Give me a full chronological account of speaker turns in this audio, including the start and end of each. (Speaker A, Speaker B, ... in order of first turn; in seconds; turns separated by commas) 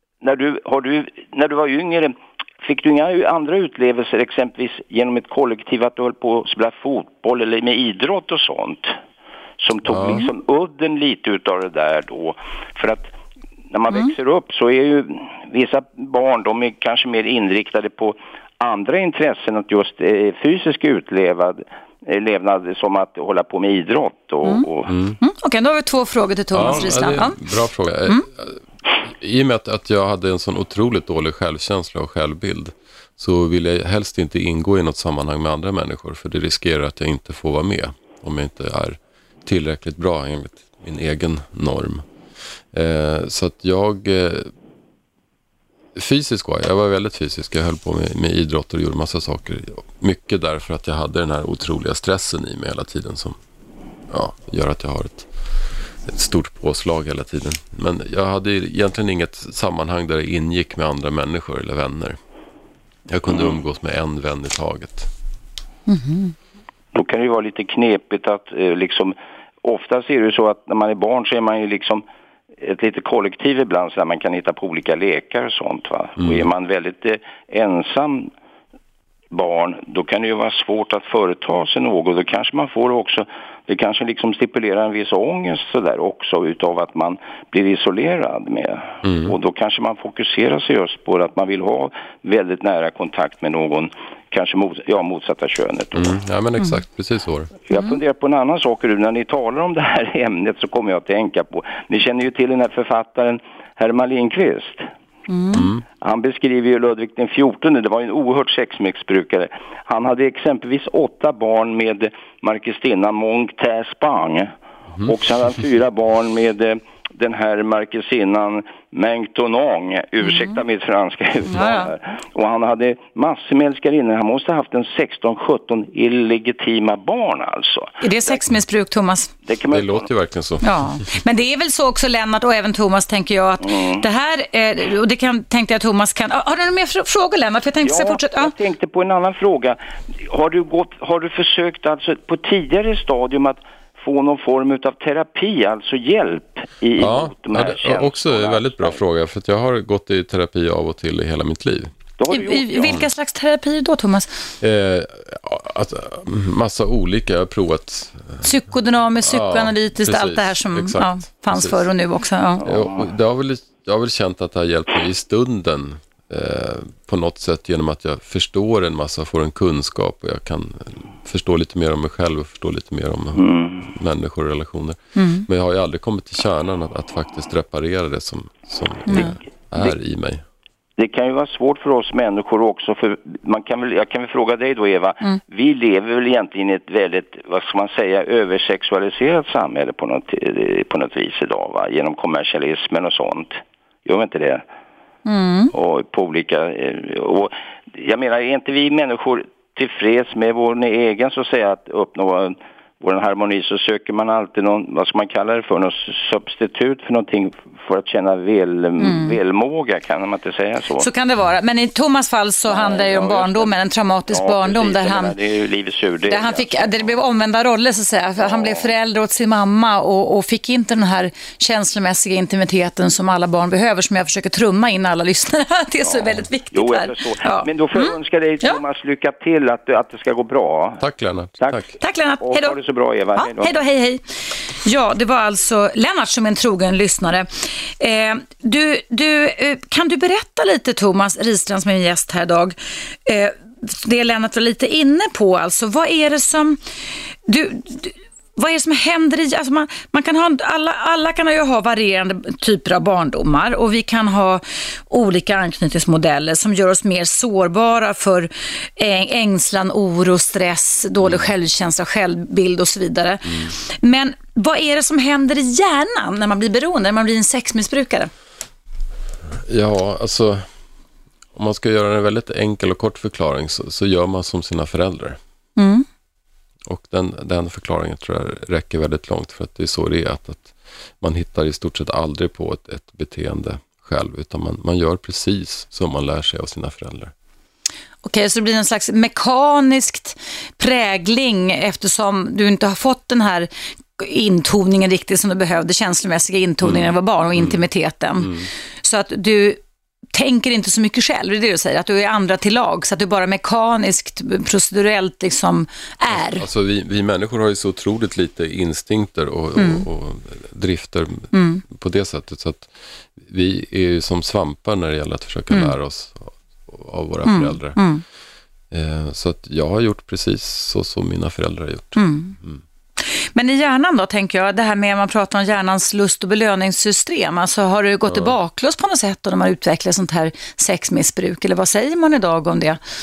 Speaker A: 0.2-8.9, Speaker A: 9.6-13.1, Speaker B: 9.9-10.2, Speaker A: 13.7-24.9, Speaker B: 24.9-25.2, Speaker C: 25.2-27.4, Speaker B: 26.5-42.1, Speaker B: 42.7-44.5, Speaker B: 45.9-53.4, Speaker B: 54.1-62.2, Speaker B: 63.1-65.1, Speaker C: 65.9-66.3, Speaker A: 66.9-72.0, Speaker A: 72.6-78.3, Speaker B: 76.2-76.5, Speaker A: 79.3-96.1, Speaker B: 89.0-89.3, Speaker B: 95.9-97.5, Speaker A: 97.7-104.9, Speaker C: 105.3-105.6, Speaker B: 105.5-105.8, Speaker A: 106.0-114.5, Speaker A: 115.0-128.4, Speaker C: 121.5-121.9, Speaker C: 128.0-129.3, Speaker A: 129.4-130.1, Speaker B: 129.7-130.8, Speaker C: 130.6-138.5, Speaker A: 133.6-134.0, Speaker A: 137.8-149.0, Speaker B: 147.0-151.9, Speaker A: 152.2-153.0, Speaker C: 152.3-154.4, Speaker B: 154.6-158.5, Speaker C: 158.4-162.6, Speaker B: 159.2-161.9, Speaker B: 162.6-180.4, Speaker A: 173.4-173.9, Speaker C: 175.2-175.4, Speaker C: 179.1-179.3, Speaker A: 181.0-194.6, Speaker C: 195.2-195.7, Speaker A: 195.7-211.1, Speaker C: 209.0-209.3, Speaker C: 211.0-215.3, Speaker A: 212.7-213.7, Speaker A: 214.3-217.2, Speaker C: 216.3-228.8, Speaker A: 218.4-218.9, Speaker A: 226.1-231.0, Speaker B: 231.0-231.8, Speaker C: 232.0-232.8, Speaker A: 232.4-233.8, Speaker C: 233.4-234.2, Speaker C: 234.8-237.5, Speaker C: 238.0-246.8, Speaker C: 247.5-268.3, Speaker B: 261.2-261.5, Speaker B: 263.4-263.7, Speaker B: 269.5-270.7, Speaker B: 271.5-275.4, Speaker C: 275.8-276.1, Speaker B: 276.9-287.3, Speaker C: 288.2-299.8, Speaker B: 296.8-297.8, Speaker B: 298.4-298.7, Speaker C: 300.3-306.6, Speaker B: 306.3-318.0, Speaker C: 309.8-310.0, Speaker C: 311.5-311.8, Speaker C: 317.4-318.2, Speaker B: 318.9-322.8, Speaker C: 322.1-322.5, Speaker C: 323.2-333.0, Speaker B: 328.2-328.5